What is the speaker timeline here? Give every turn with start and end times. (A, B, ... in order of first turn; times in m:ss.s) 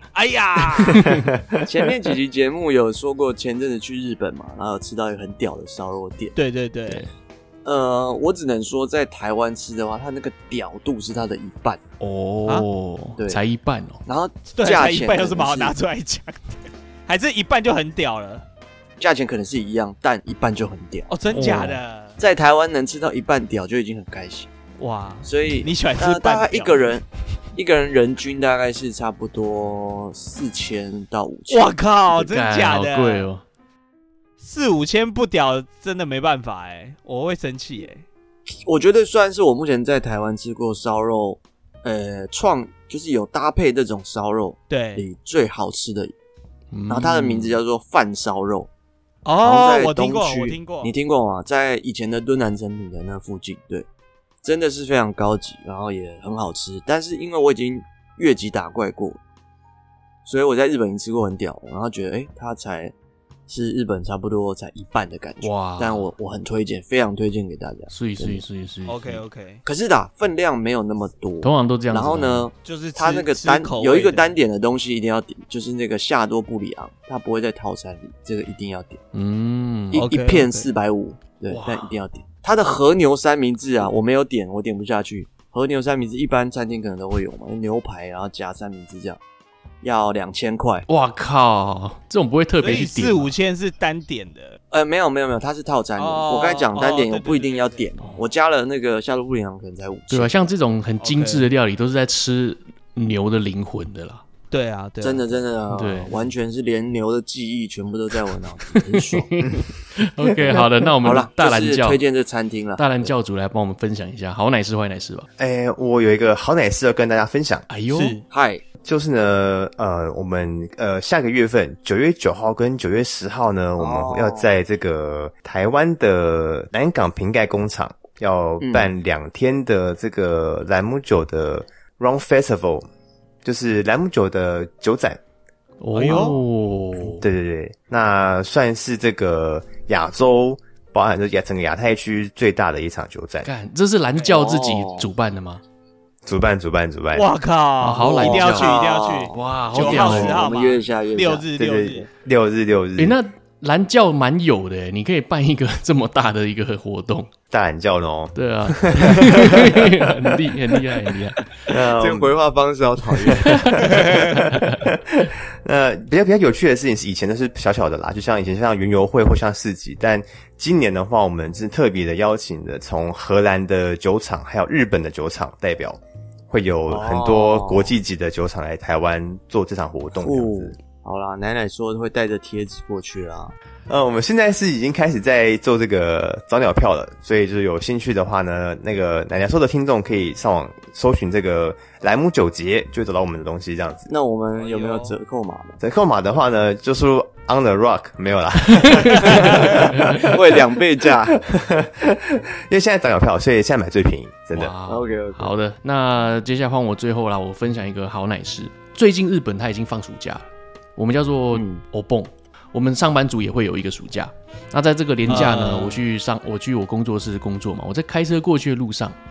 0:00.1-0:01.1 A
0:00.9-0:01.3 B
0:01.0-0:01.7 C
0:01.6-0:06.3 D
0:06.4-0:07.0 A
0:07.6-0:11.8 D
0:12.0-0:14.0 B
0:14.0-0:15.7 D
0:14.5-0:16.6 A
0:17.1-0:18.4 A
0:19.0-0:21.1 D
0:21.1-0:22.2 A
0:21.3-0:21.8 B
0:22.2-0:24.5 D
0:24.8-0:26.9 A
0:25.2-0:31.7 D
0:31.5-0:33.3 A
0:32.1-0:33.4 B
0:34.4-0:38.0 A
0:38.6-0:46.1 D
0:44.7-0:45.0 A
0:46.7-0:47.6 B
0:46.9-0:48.7 D
0:49.2-0:50.9 A
0:49.4-0:53.8 D
0:54.4-0:59.2 D
1:00.2-1:02.9 D
1:03.5-1:08.4 D
1:05.4-1:06.1 B
1:07.9-1:09.2 B
1:08.9-1:09.6 A
1:09.6-1:19.0 D
1:11.4-1:12.5 B
1:12.6-1:14.3 A
1:19.1-1:20.0 B
1:19.9-1:29.2 D
1:19.9-1:20.7 A
1:21.5-1:21.9 B
1:29.8-1:30.8 D
1:30.9-1:33.3 B
1:32.6-1:34.6 A
1:34.7-1:40.4 D
1:36.0-1:37.9 A
1:40.1-1:44.2 B
1:41.0-1:41.5 A
1:44.5-1:45.2 A
1:45.0-1:49.3 D
1:45.7-1:46.1 B
1:48.7-1:52.0 B
1:51.0-1:53.1 D
1:52.8-1:55.3 B
1:55.4-1:57.7 C
1:57.7-1:58.2 B
1:57.9-1:58.2 A
1:58.3-1:58.6 D
1:58.8-2:12.8 C
2:03.8-2:04.5 D
2:08.6-2:08.9 D
2:13.4-2:15.2 C
2:15.8-2:17.2 B
2:16.0-2:16.4 A
2:17.0-2:23.5 C
2:23.4-2:25.6 B
2:24.2-2:25.1 D
2:26.2-2:27.3 C
2:27.1-2:32.1 A
2:27.8-2:28.8 B
2:28.0-2:31.5 D
2:29.3-2:30.4 B
2:31.6-2:33.2 C
2:33.0-2:37.3 B
2:37.5-2:40.3 C
2:38.3-2:41.4 B
2:41.7-2:44.1 D
2:41.7-2:42.4 C
2:43.4-2:44.9 B
2:43.8-3:00.8 C
2:56.9-2:58.0 D
3:00.1-3:03.5 D
3:03.9-3:14.1 C
3:14.1-3:15.8 D
3:14.6-3:15.1 A
3:15.8-3:24.7 C
3:18.8-3:20.3 B
3:19.2-3:21.4 D
3:24.5-3:39.2 B
3:24.9-3:25.5 D
3:31.5-3:31.8 D
3:35.3-3:36.0 A